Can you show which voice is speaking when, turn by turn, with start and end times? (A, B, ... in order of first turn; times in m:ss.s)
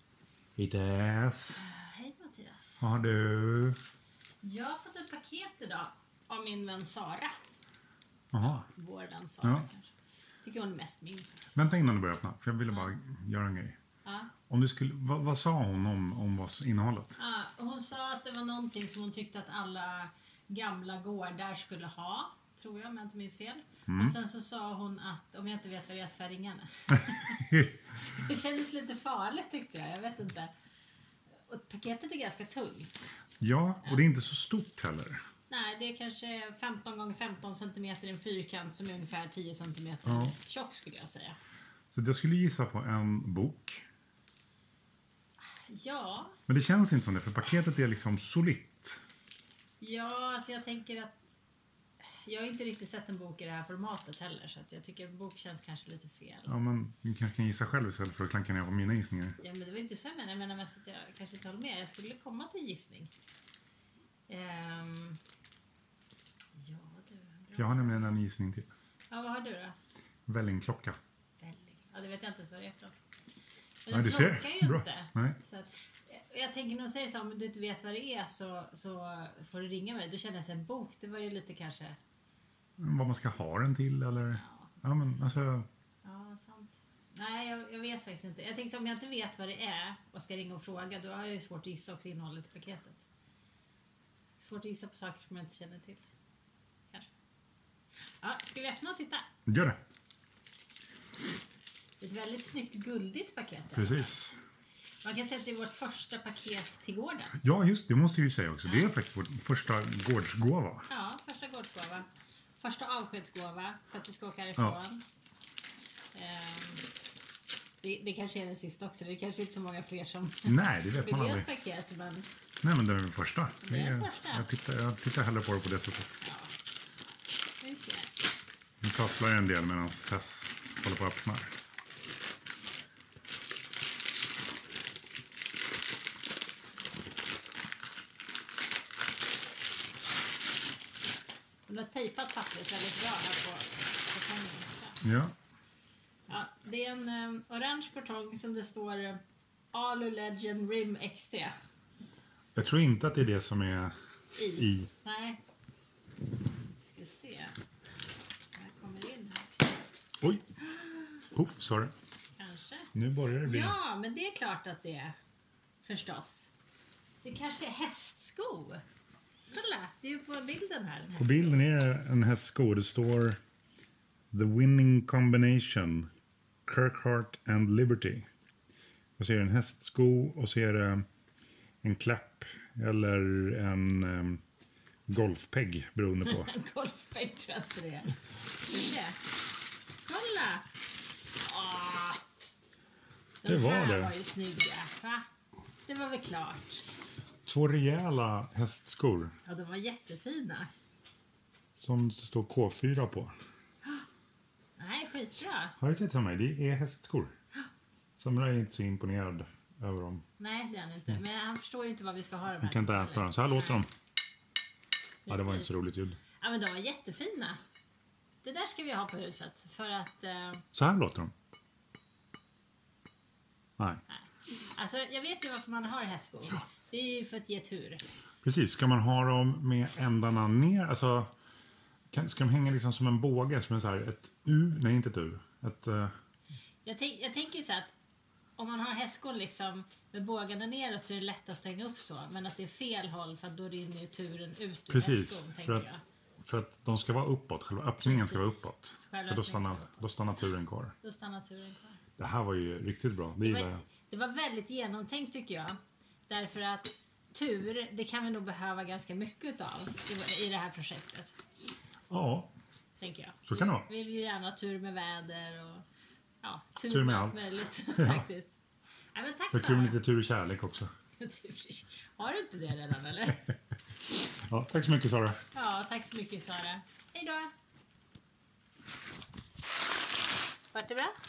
0:00.6-0:01.6 A
0:01.5-0:02.8 B
0:02.8-0:03.8 A
0:04.4-0:07.3 B
0:08.3-0:08.7 A
0:08.4-0:11.7 B
0:09.4-0:09.7 A
0:11.6-0:13.8 A
0:14.0-0:14.3 B
0:14.5-0:17.2 A
0:17.2-0:30.5 B
0:23.9-0:24.1 A
0:27.5-0:27.8 A
0:31.4-0:33.1 B
0:33.4-0:35.2 A
0:35.5-0:41.4 B
0:40.0-0:40.4 A
0:41.9-0:43.8 A
0:45.5-0:46.4 B
0:46.5-0:49.0 A
0:49.8-0:51.3 B
0:52.1-0:56.5 B
0:56.5-0:59.4 A
0:59.4-1:03.1 B
1:04.3-1:05.2 B
1:06.6-1:08.0 B
1:07.6-1:08.7 A
1:09.1-1:09.8 B
1:10.3-1:11.0 A
1:11.4-1:12.9 B
1:13.8-1:22.0 B
1:13.9-1:15.4 A
1:22.8-1:25.7 A
1:24.3-1:24.7 B
1:26.0-1:33.0 B
1:34.4-1:36.0 B
1:38.2-1:39.3 B
1:39.5-1:39.8 A
1:42.0-1:44.1 B
1:43.7-1:44.4 A
1:45.0-1:47.4 B
1:47.4-1:50.9 A
1:48.6-1:48.9 B
1:50.9-1:52.1 B
1:52.6-1:55.0 B
1:56.1-1:56.8 B
1:57.8-2:02.3 B
2:00.4-2:01.5 A
2:02.6-2:06.2 A
2:03.6-2:04.5 B
2:06.2-2:06.5 B
2:07.6-2:08.1 B
2:08.8-2:11.5 A
2:21.7-2:25.0 B
2:25.0-2:25.4 A
2:26.3-2:29.2 B
2:29.7-2:31.6 B
2:32.5-2:34.9 A
2:34.4-2:35.4 B
2:36.8-2:37.6 B
2:38.5-2:39.7 B
2:40.2-2:40.4 A
2:40.6-2:41.2 B
2:41.3-2:41.9 A
2:42.4-2:45.2 B
2:42.9-2:43.7 A
2:45.8-2:46.5 B
2:47.2-2:48.8 B
2:49.5-2:51.6 B
2:51.2-2:53.4 A
2:54.3-2:56.1 A
2:56.6-2:58.3 A
2:59.2-3:01.0 A
3:01.8-3:04.4 A
3:05.1-3:06.5 A
3:06.2-3:09.2 B
3:10.0-3:10.7 B
3:11.4-3:12.2 B
3:13.4-3:15.3 B
3:13.4-3:14.1 A
3:15.8-3:16.8 B
3:17.4-3:19.3 A
3:19.4-3:20.7 B
3:21.8-3:23.3 A
3:24.8-3:25.8 B
3:25.8-3:27.3 A
3:28.2-3:30.2 A
3:30.4-3:33.8 B
3:32.6-3:33.9 A
3:35.2-3:35.8 B
3:35.3-3:36.2 A
3:36.3-3:37.6 B
3:38.4-3:40.6 B
3:40.7-3:41.3 A
3:44.1-3:48.0 B
3:48.4-3:51.3 A
3:52.1-3:56.1 A
3:56.8-3:57.9 B
3:58.6-4:06.0 B
4:04.9-4:10.9 A
4:08.0-4:10.0 B
4:11.0-4:12.0 B
4:12.2-4:13.8 A
4:13.4-4:21.4 B
4:22.1-4:22.5 A
4:23.0-4:25.8 B
4:23.4-4:23.9 A
4:26.4-4:28.5 B
4:26.9-4:28.2 A
4:29.1-4:30.0 B
4:29.5-4:30.9 A
4:31.2-4:33.6 B
4:34.1-4:35.4 A
4:35.5-4:37.5 B
4:40.7-4:41.1 B